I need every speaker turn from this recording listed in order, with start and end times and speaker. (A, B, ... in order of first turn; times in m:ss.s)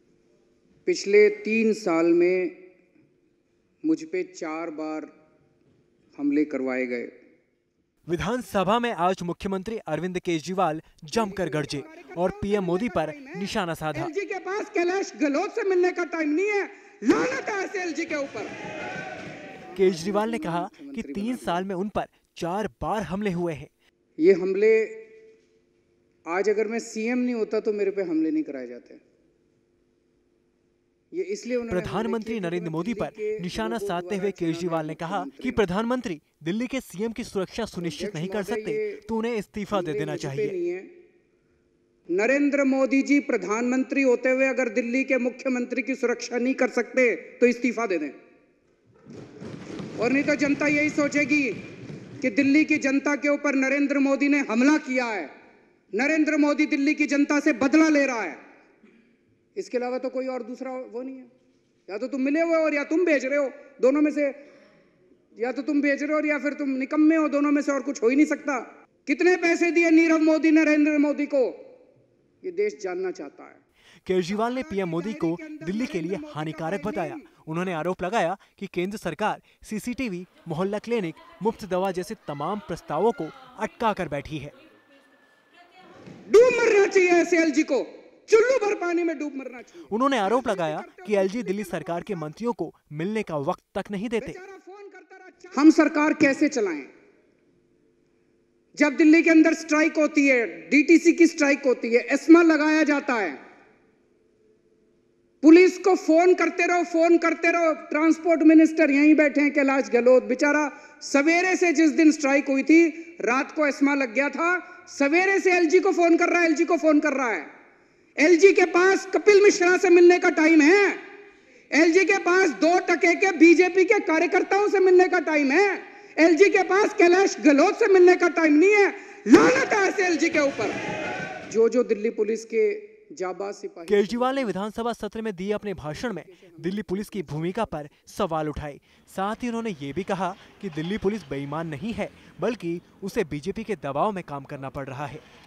0:00.8-0:02.6 A
0:03.8-0:05.1 A
0:06.2-0:07.1 A
0:08.1-0:14.1 B
0:11.1-0:18.5 A
0:19.7-0:21.7 A
0:19.7-0:23.7 B
0:24.2-0:25.0 A
0:26.3-0:29.0 A
0:31.1-0:35.7 A
0:31.7-0:40.5 B
0:37.8-0:39.0 A
0:39.7-0:40.9 A
0:42.1-0:48.2 A
0:50.0-0:51.6 A
0:52.2-0:55.3 A
0:55.9-0:58.4 A
0:59.6-1:01.3 A
1:01.9-1:04.3 A
1:05.4-1:11.6 A
1:12.4-1:13.6 A
1:14.0-1:24.5 B
1:14.3-1:17.3 A
1:26.3-1:32.3 A
1:29.9-1:34.4 B
1:34.2-1:36.9 A
1:38.8-1:43.4 A
1:45.4-1:57.5 A
1:58.2-2:01.0 A
2:01.7-2:10.8 A
2:11.5-2:14.6 A
2:13.9-2:25.2 B
2:15.6-2:17.9 A